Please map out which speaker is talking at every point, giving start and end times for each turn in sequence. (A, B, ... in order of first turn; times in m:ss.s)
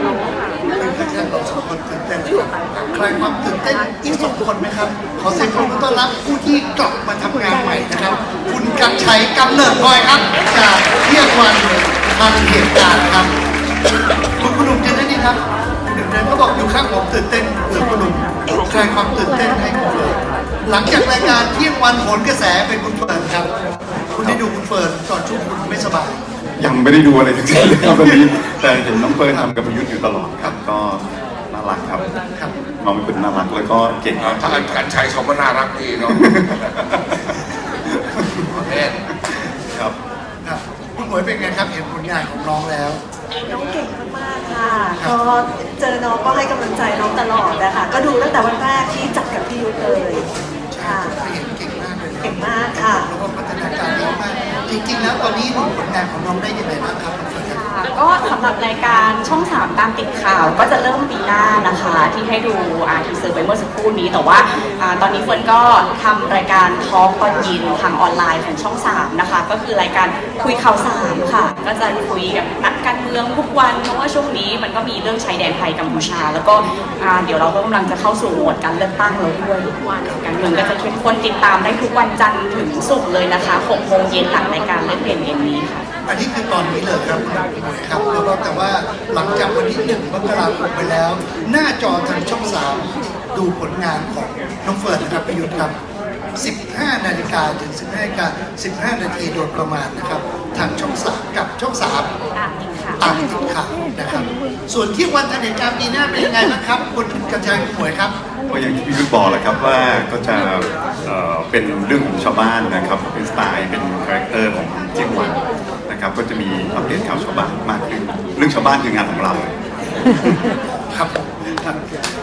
0:00.7-0:13.3 A
0:14.4-0:23.5 A
0:24.1-0:26.2 A
0:26.6-0:32.1 B
0:27.8-0:28.3 A
0:32.8-0:34.9 B
0:34.2-0:36.8 C
0:36.0-0:38.5 B
0:38.6-0:39.0 C
0:39.1-0:40.0 B
0:40.4-0:43.0 A
0:43.4-0:50.3 D
0:50.7-0:57.6 A
0:50.8-0:51.2 D
0:52.2-0:53.1 D
0:57.5-1:25.8 E
1:26.1-1:35.7 A
1:36.4-1:42.1 A
1:42.3-1:43.0 E
1:43.0-1:48.1 A
1:48.5-2:00.2 B
2:00.9-2:01.8 A